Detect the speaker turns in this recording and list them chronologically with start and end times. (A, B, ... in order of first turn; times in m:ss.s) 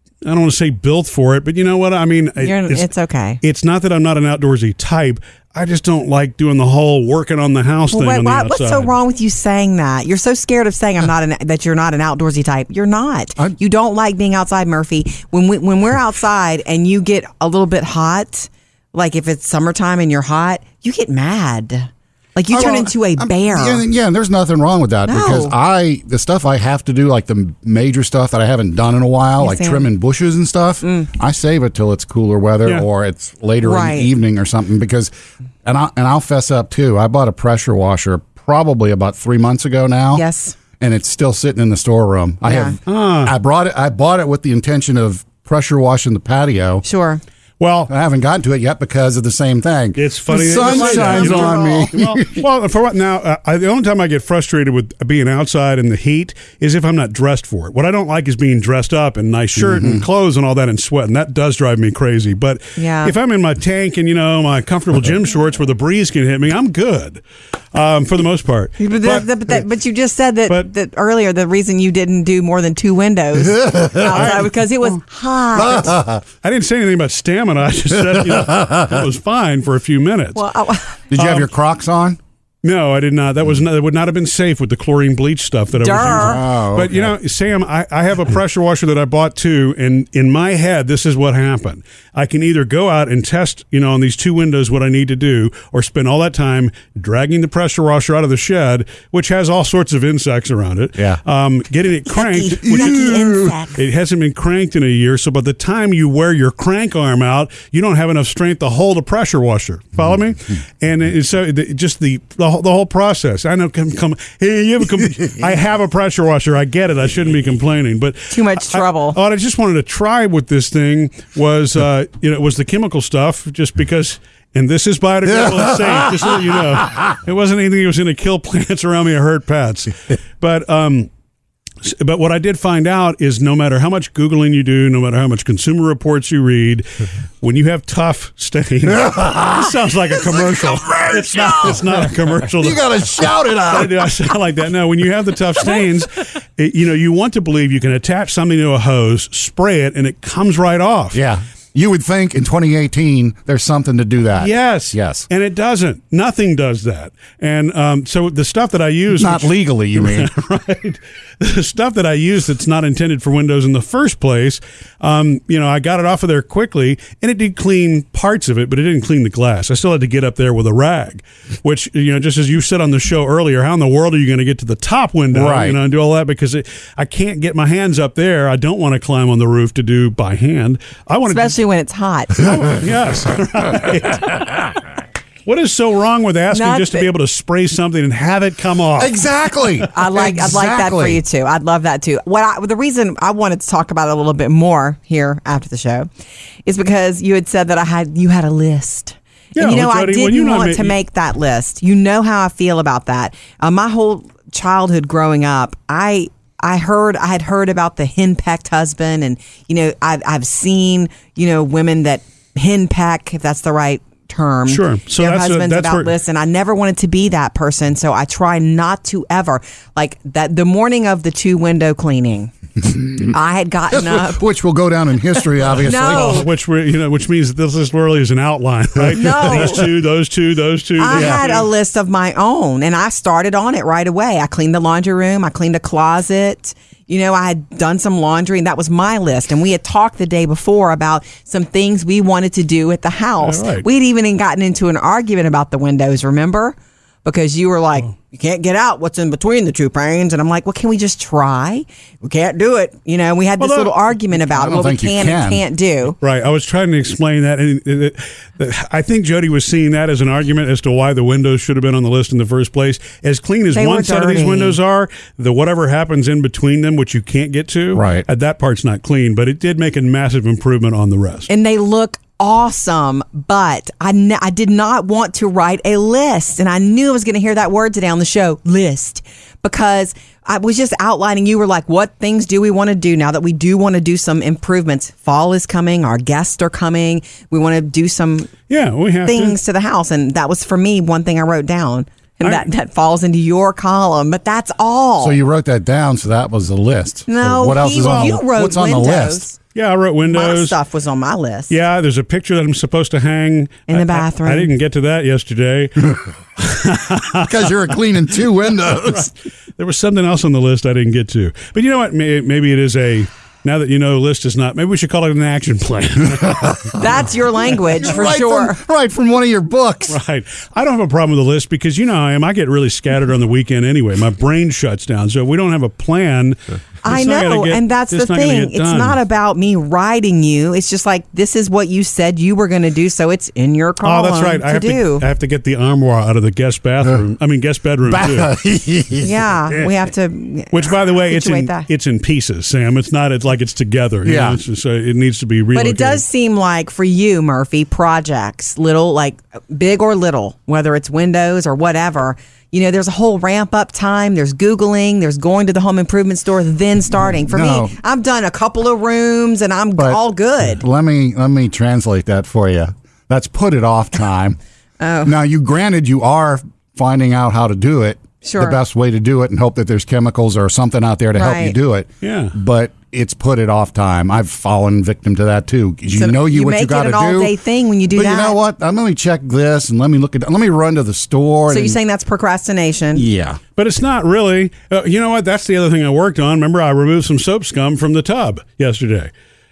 0:00.2-0:02.9 A
0:02.4-0:03.4 B
0:03.4-0:08.9 A
0:07.9-0:23.8 B
0:22.5-0:35.1 C
0:25.1-0:25.5 B
0:29.4-0:29.9 B
0:30.8-0:31.1 B
0:33.6-0:34.1 B
0:35.6-0:40.2 C
0:40.1-0:40.6 B
0:40.8-0:46.8 C
0:42.4-0:42.8 B
0:42.9-0:43.3 A
0:46.8-0:47.2 B
0:47.6-0:47.9 A
0:47.9-0:52.4 C
0:50.0-1:07.2 A
0:50.3-0:51.8 B
0:59.6-1:00.0 C
1:02.8-1:03.2 B
1:07.7-1:09.6 A
1:08.8-1:15.9 B
1:13.4-1:14.3 C
1:14.1-1:15.0 A
1:15.6-1:16.2 C
1:16.4-1:20.4 A
1:20.4-1:21.0 B
1:21.1-1:22.2 C
1:21.1-1:21.5 A
1:22.6-2:11.1 A
1:25.8-1:26.4 B
1:26.0-1:27.1 C
1:42.1-1:43.8 B
1:42.6-1:43.6 C
1:58.3-1:59.2 B
2:11.8-2:16.9 A
2:17.4-2:22.8 A
2:19.1-2:19.6 C
2:20.2-2:24.0 C
2:23.7-2:31.2 A
2:31.1-2:35.3 C
2:34.4-3:01.6 A
2:39.2-2:40.3 C
2:55.3-2:55.8 C
3:01.3-3:02.4 B
3:02.4-3:04.9 A
3:05.5-3:09.2 A
3:06.5-3:07.1 B
3:09.0-3:11.2 C
3:09.9-3:16.1 B
3:16.6-3:42.5 B
3:19.5-3:21.0 A
3:34.7-3:36.1 A
3:43.2-3:44.4 B
3:43.9-3:46.5 C
3:45.8-3:46.5 B
3:45.9-3:51.6 A
3:49.1-3:49.9 B
3:51.0-4:16.2 B
3:51.1-3:51.5 C
4:03.4-4:03.9 A
4:13.6-4:13.9 A
4:14.5-4:15.6 C
4:16.2-4:31.5 A
4:23.7-4:24.8 B
4:27.9-4:28.2 C
4:31.5-4:48.5 B
4:48.7-4:49.6 A
4:49.3-4:55.4 B
4:55.2-4:59.5 C
4:57.3-4:59.6 B
4:58.0-4:58.4 A
4:59.7-5:00.8 A
5:00.3-5:01.8 B
5:01.7-5:07.7 A
5:03.9-5:04.7 B
5:07.4-5:09.3 C
5:09.1-5:17.0 A
5:17.0-5:18.8 B
5:18.0-5:20.2 C
5:20.1-5:29.2 A
5:27.0-5:35.3 B
5:34.0-5:38.5 A
5:38.1-5:39.9 C
5:39.2-5:41.9 B
5:40.7-5:46.2 A
5:44.2-5:44.6 C
5:45.7-6:00.8 B
5:57.4-5:57.9 C
6:00.0-6:04.6 C
6:05.0-6:05.4 B
6:05.2-6:17.5 C
6:08.4-6:08.8 B
6:11.3-6:11.8 B
6:12.2-6:12.5 A
6:16.1-6:18.6 B
6:18.1-6:22.0 C
6:21.7-6:23.2 B
6:23.2-6:23.6 C
6:23.8-6:29.3 A